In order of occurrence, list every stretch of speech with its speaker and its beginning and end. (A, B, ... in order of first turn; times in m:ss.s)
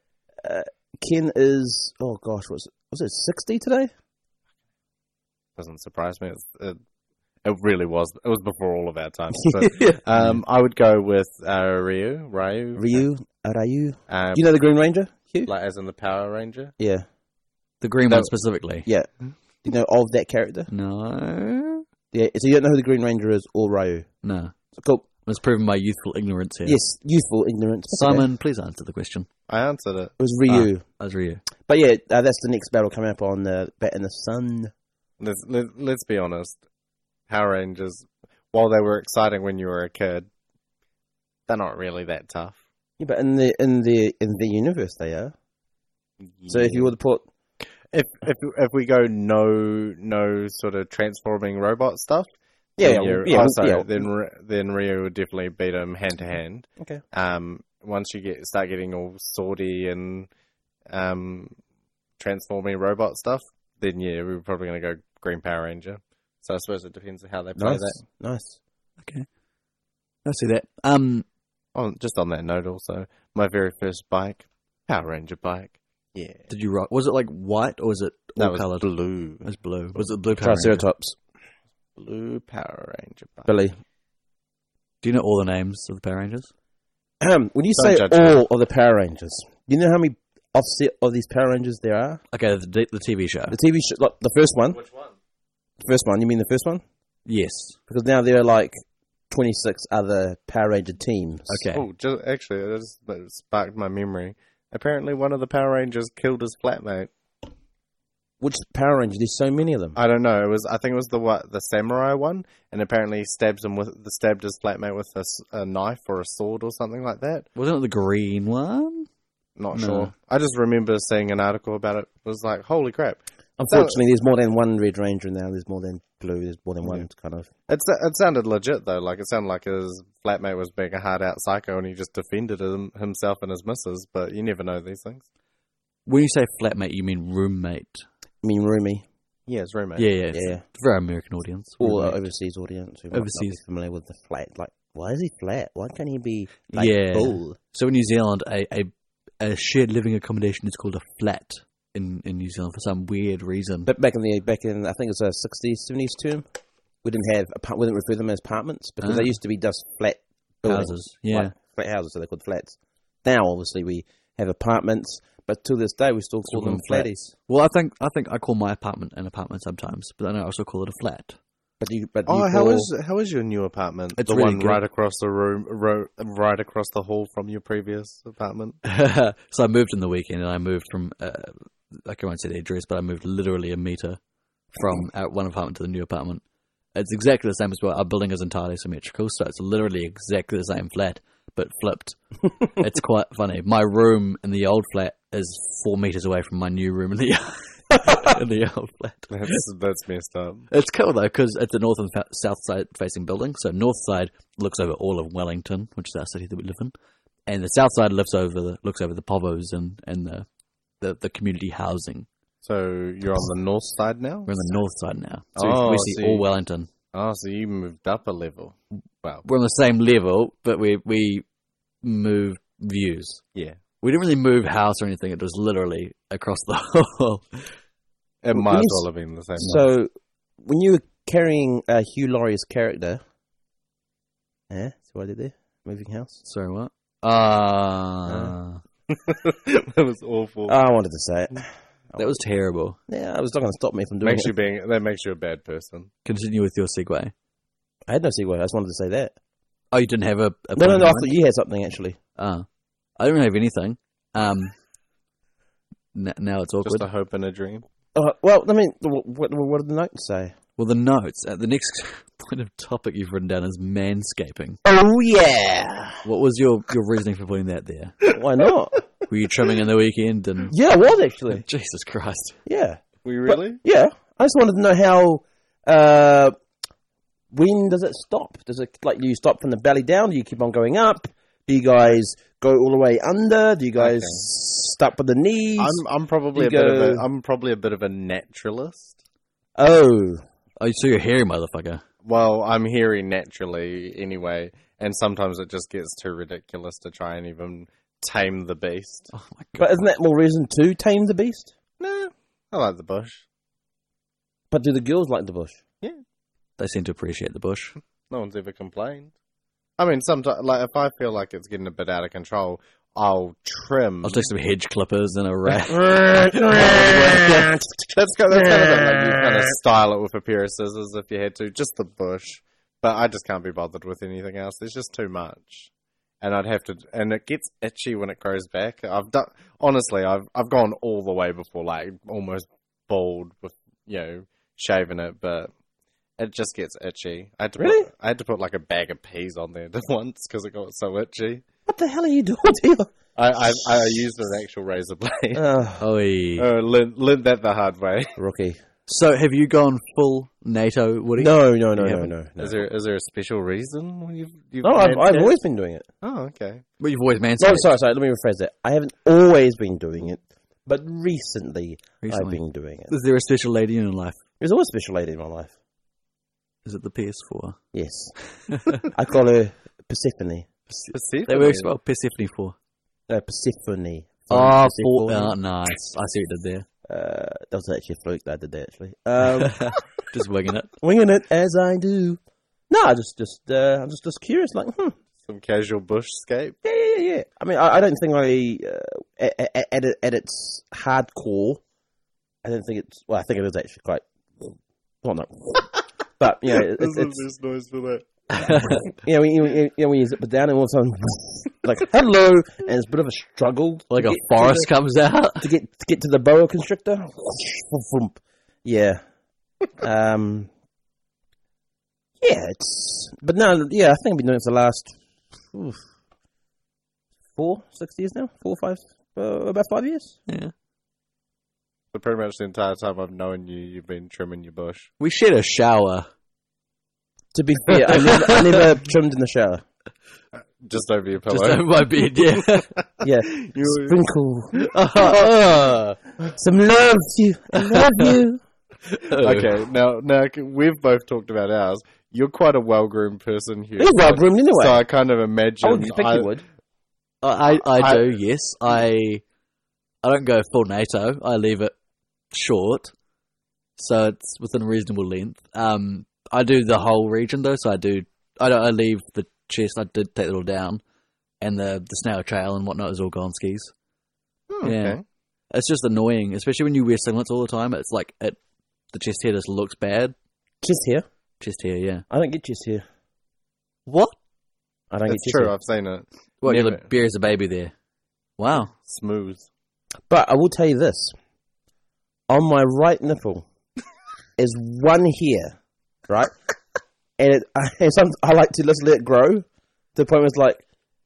0:00.4-0:03.9 A
0:05.6-0:06.8 B
0:07.4-0:13.0 B
0:09.4-0:10.0 A
0:12.8-0:15.5 A
0:14.1-0:14.4 B
0:15.4-0:16.7 B
0:16.8-0:17.0 A
0:17.8-0:18.9 C
0:19.6-0:20.7 A
0:20.7-0:21.8 C
0:22.1-0:24.1 A
0:24.2-0:24.5 C
0:24.8-0:25.1 A
0:25.2-0:26.8 C
0:26.6-0:28.3 A
0:27.9-0:29.3 C
0:29.5-0:30.1 B
0:30.2-0:30.8 A
0:30.5-0:31.4 C
0:31.6-0:34.7 A
0:35.2-0:36.6 B
0:37.3-0:40.3 B
0:41.5-0:42.6 B
0:43.0-0:45.3 A
0:46.4-0:46.9 B
0:46.5-0:47.2 A
0:47.9-1:00.3 B
0:52.8-0:53.9 A
1:00.9-1:01.5 B
1:02.2-1:08.0 B
1:07.6-1:08.6 A
1:10.2-1:11.2 C
1:11.7-1:16.4 B
1:16.5-1:18.9 C
1:18.4-1:20.0 B
1:19.4-1:20.8 C
1:20.4-1:21.2 A
1:22.0-1:23.5 B
1:23.4-1:23.8 A
1:25.0-1:26.5 C
1:27.2-1:32.2 A
1:27.8-1:28.4 B
1:32.3-1:33.6 C
1:33.5-1:34.8 A
1:34.8-1:35.1 B
1:35.8-1:36.8 A
1:37.2-1:37.8 C
1:37.9-1:41.6 A
1:41.5-1:41.8 C
1:41.7-1:47.1 B
1:48.4-1:50.0 A
1:50.0-1:57.5 B
1:57.6-1:59.1 C
1:59.6-2:04.0 B
1:59.7-2:00.1 C
2:03.6-2:07.5 A
2:07.7-2:15.2 B
2:16.0-2:18.0 C
2:18.4-2:19.0 A
2:19.5-2:20.1 B
2:20.0-2:22.2 C
2:20.3-2:20.6 A
2:21.8-2:27.6 A
2:23.1-2:23.6 C
2:26.7-2:33.9 C
2:33.8-2:36.4 A
2:37.0-2:47.3 A
2:39.0-2:39.4 C
2:40.6-2:41.5 C
2:46.5-2:51.4 C
2:51.8-2:52.9 A
2:52.3-2:58.8 B
2:54.2-2:54.8 C
2:58.8-3:04.2 C
3:04.7-3:06.4 C
3:06.9-3:19.6 C
3:19.3-3:20.7 B
3:20.7-3:26.9 C
3:27.5-3:30.5 C
3:31.0-3:32.3 C
3:32.6-3:34.6 B
3:34.5-3:36.9 C
3:35.6-3:36.4 B
3:37.1-3:39.4 B
3:39.4-3:41.4 C
3:42.0-3:43.4 C
3:44.0-3:47.7 C
3:48.4-3:49.8 B
3:48.5-3:49.0 A
3:49.6-3:53.2 A
3:54.7-3:56.4 A
3:56.4-3:58.8 C
3:59.1-4:00.8 B
4:00.7-4:02.2 A
4:02.2-4:03.0 C
4:03.1-4:04.5 A
4:04.2-4:06.1 B
4:06.2-4:07.3 C
4:08.1-4:09.3 A
4:09.9-4:11.3 C
4:10.8-4:12.2 A
4:12.4-4:12.6 C
4:13.2-4:14.7 C
4:16.1-4:17.1 C
4:16.8-4:17.8 B
4:18.1-4:20.5 A
4:20.8-4:24.8 C
4:24.8-4:26.2 A
4:26.2-4:28.2 C
4:28.3-4:29.0 A
4:29.3-4:30.7 C
4:30.7-4:31.6 A
4:31.5-4:32.6 C
4:32.6-4:36.5 A
4:33.2-4:33.8 B
4:37.5-4:46.0 A
4:44.0-4:44.4 B
4:45.8-4:49.2 B
4:46.5-4:47.2 A
4:49.8-4:50.4 A
4:50.8-4:52.0 C
4:52.2-4:59.3 B
4:59.3-4:59.9 C
4:59.8-5:01.7 A
5:02.0-5:03.4 B
5:04.7-5:05.8 A
5:06.8-5:07.9 C
5:08.3-5:09.3 B
5:10.0-5:14.5 B
5:14.2-5:17.8 C
5:15.8-5:19.8 A
5:18.1-5:25.9 B
5:26.4-5:35.7 B
5:36.4-5:41.6 B
5:37.8-5:38.1 A
5:41.8-5:43.1 A
5:43.4-5:45.6 B
5:43.8-5:44.1 A
5:45.5-5:46.0 A
5:46.0-5:46.7 C
5:46.6-5:48.3 B
5:48.4-5:48.8 A
5:49.1-5:52.3 C
5:51.4-5:52.8 A
5:52.6-5:55.5 B
5:54.8-5:56.1 A
5:56.2-5:56.8 B
5:57.0-5:57.9 C
5:57.6-6:03.1 A
6:02.2-6:04.4 C
6:04.6-6:05.7 A
6:06.8-6:07.8 C
6:07.9-6:08.3 A
6:08.7-6:09.0 C
6:09.0-6:10.7 A
6:11.0-6:12.7 C
6:11.1-6:11.9 B
6:13.3-6:15.6 A
6:14.5-6:16.8 C
6:17.1-6:19.8 A
6:19.6-6:20.9 C
6:21.0-6:25.2 A
6:25.5-6:26.8 B
6:26.8-6:31.8 A
6:32.6-6:37.4 A
6:36.8-6:38.2 B
6:38.5-6:39.0 C
6:38.9-6:44.9 A
6:44.1-6:45.6 C
6:45.6-6:49.2 A
6:50.0-6:50.7 A
6:52.4-6:56.0 A
6:57.5-7:00.4 A
7:00.5-7:00.7 C
7:02.1-7:05.1 B
7:05.2-7:06.3 C
7:07.5-7:09.8 A
7:10.8-7:11.9 B
7:11.5-7:12.9 C
7:12.7-7:14.2 B
7:13.2-7:15.9 A
7:14.8-7:16.2 C
7:16.4-7:18.6 A
7:17.7-7:18.3 C
7:19.1-7:19.7 C
7:19.4-7:26.5 B
7:24.0-7:25.0 A
7:25.8-7:26.6 A
7:27.4-7:29.4 C
7:27.8-7:28.3 B
7:30.2-7:31.9 C
7:32.5-7:33.1 C
7:34.0-7:41.0 C
7:41.6-7:43.9 C
7:44.7-7:45.2 B
7:44.8-7:45.2 C
7:45.7-7:48.6 C
7:49.1-7:50.3 C
7:50.8-7:51.2 A
7:51.6-7:52.2 C
7:52.3-7:53.0 A
7:54.0-7:54.4 C
7:55.1-7:55.7 A
7:55.3-7:57.1 B
7:56.6-7:57.9 C
7:58.6-7:58.9 C
7:59.0-7:59.7 B
8:00.3-8:01.3 A
8:02.5-8:03.6 A
8:04.6-8:05.8 A
8:06.3-8:06.5 A
8:07.4-8:09.6 A
8:10.2-8:10.8 A